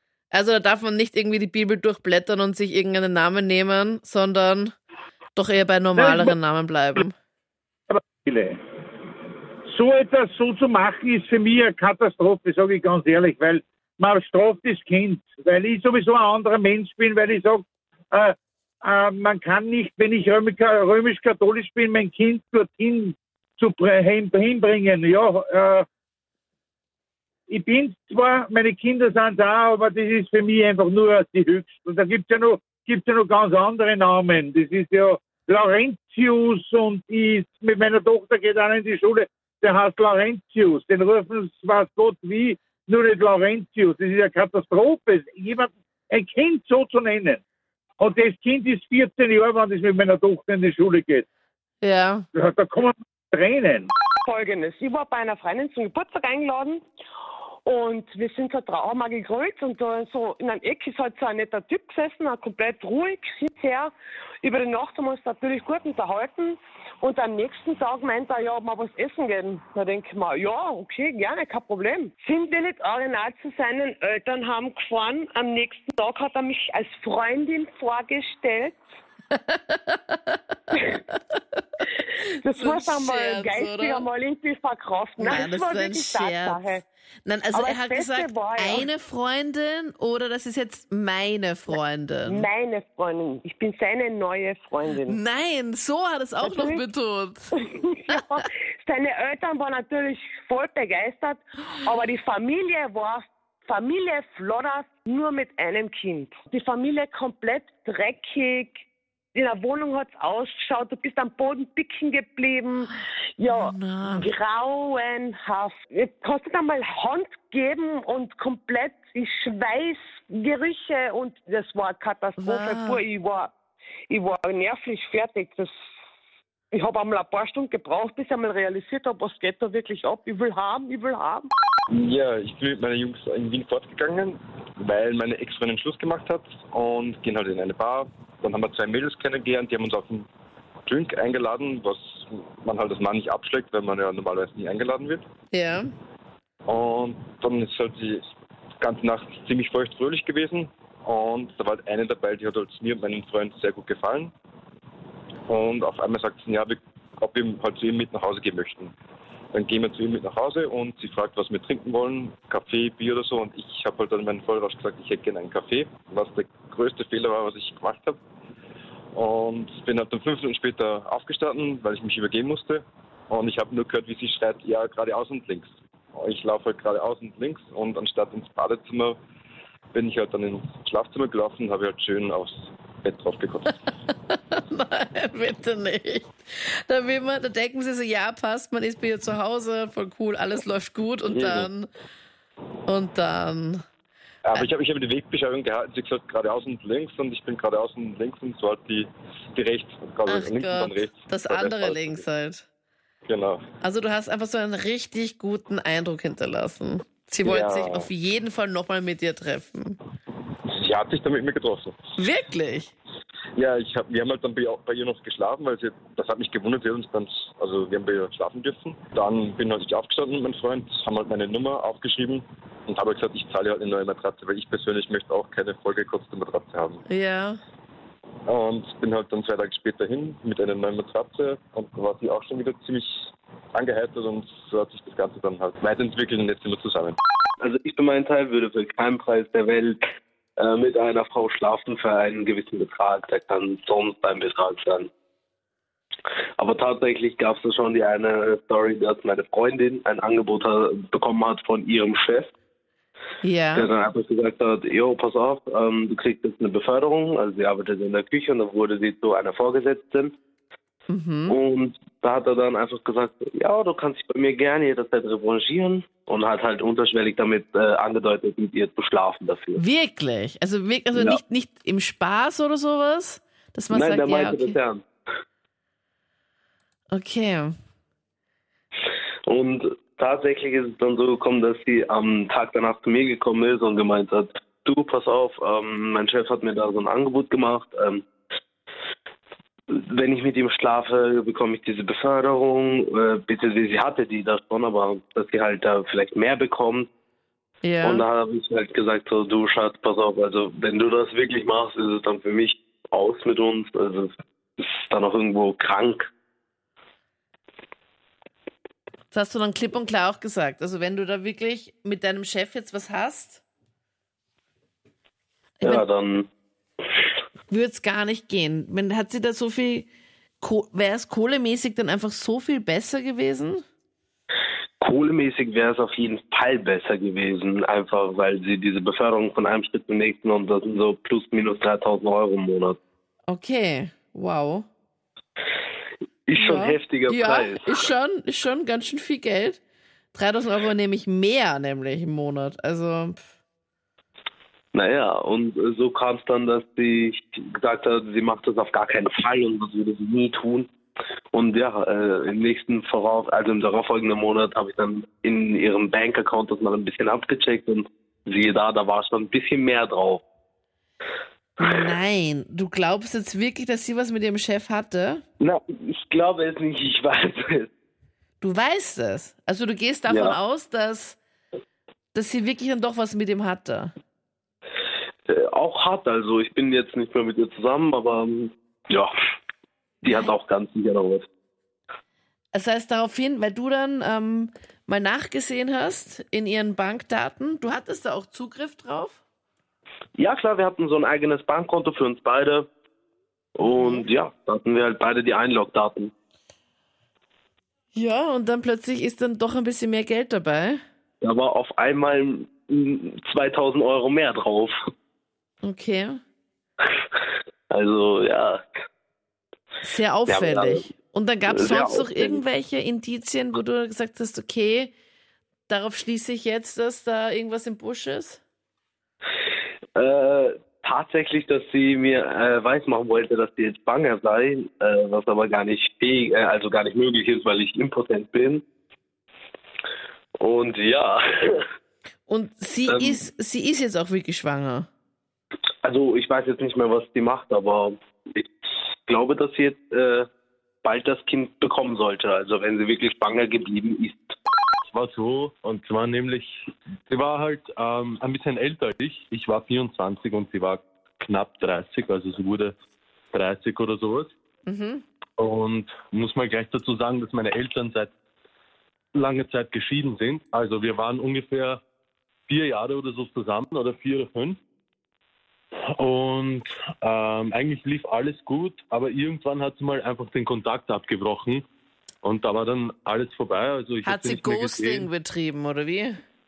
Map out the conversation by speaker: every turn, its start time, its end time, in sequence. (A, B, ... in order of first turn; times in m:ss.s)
0:00.3-0:04.7 A
0:05.4-0:07.1 A
0:06.0-0:06.3 B
0:07.9-0:08.5 B
0:09.7-0:25.8 B
0:27.5-0:47.4 B
0:48.0-0:51.2 B
0:51.8-0:52.2 A
0:52.3-0:53.9 B
0:54.2-0:56.8 C
0:57.6-1:18.8 C
1:19.3-1:20.3 A
1:22.4-1:26.8 C
1:22.6-1:24.0 A
1:25.2-1:26.6 A
1:27.2-1:32.4 A
1:27.5-1:28.9 C
1:31.7-1:35.2 C
1:35.1-1:37.5 A
1:36.4-1:36.9 C
1:37.5-1:48.8 C
1:49.3-2:03.5 C
1:53.6-1:54.2 A
2:02.4-2:03.0 A
2:04.1-2:05.7 C
2:06.7-2:11.5 C
2:11.9-2:20.3 D
2:20.8-2:25.2 D
2:25.5-2:25.9 A
2:26.7-2:28.2 D
2:28.8-2:34.3 D
2:35.5-2:38.9 D
2:39.5-2:48.2 D
2:49.1-2:59.2 D
2:59.9-3:03.7 D
3:04.1-3:11.9 A
3:11.2-3:11.7 D
3:12.9-3:13.8 A
3:14.4-3:22.2 D
3:20.2-3:22.6 A
3:23.3-3:23.7 D
3:23.8-3:30.0 A
3:27.4-3:28.1 D
3:30.7-3:32.0 D
3:32.2-3:32.9 A
3:33.6-3:47.0 D
3:47.0-3:47.6 A
3:48.5-3:57.2 D
3:57.6-4:00.0 E
4:00.6-4:05.1 E
4:06.6-4:12.5 E
4:13.4-4:13.9 A
4:13.7-4:20.3 E
4:21.1-4:21.6 A
4:21.5-4:29.8 E
4:29.8-4:34.8 A
4:31.1-4:31.4 E
4:33.9-4:35.0 E
4:37.1-4:37.7 A
4:39.5-4:48.3 E
4:49.9-4:57.1 E
4:57.8-4:58.2 A
4:58.0-5:06.3 E
5:09.3-5:13.6 A
5:15.8-5:16.5 E
5:17.7-5:20.1 A
5:20.6-5:23.8 A
5:25.0-5:33.0 E
5:33.5-5:34.8 A
5:36.5-5:38.0 E
5:36.6-5:39.8 A
5:40.3-5:43.4 A
5:44.9-5:50.9 E
5:51.5-6:00.4 E
6:01.8-6:05.4 A
6:05.6-6:07.9 E
6:08.6-6:11.4 A
6:10.3-6:10.6 E
6:12.3-6:14.1 A
6:15.5-6:19.3 E
6:20.2-6:21.4 E
6:22.7-6:29.4 A
6:30.4-6:32.9 E
6:33.8-6:36.3 E
6:33.8-6:34.2 A
6:38.1-6:41.0 A
6:41.4-6:44.9 E
6:45.8-6:46.4 A
6:47.9-6:48.8 E
6:50.0-6:55.1 A
6:50.5-6:51.1 E
6:51.7-6:52.6 E
6:55.9-6:58.6 A
7:00.2-7:08.8 E
7:10.6-7:11.8 E
7:12.5-7:15.1 A
7:13.1-7:13.4 E
7:16.0-7:18.7 E
7:19.2-7:20.5 E
7:21.0-7:24.5 E
7:25.1-7:26.7 F
7:27.3-7:32.9 F
7:33.5-7:34.5 F
7:34.9-7:35.2 A
7:35.6-7:38.3 F
7:39.3-7:42.0 F
7:42.7-7:44.8 F
7:46.2-7:51.8 F
7:52.4-7:55.3 F
7:54.2-7:56.4 A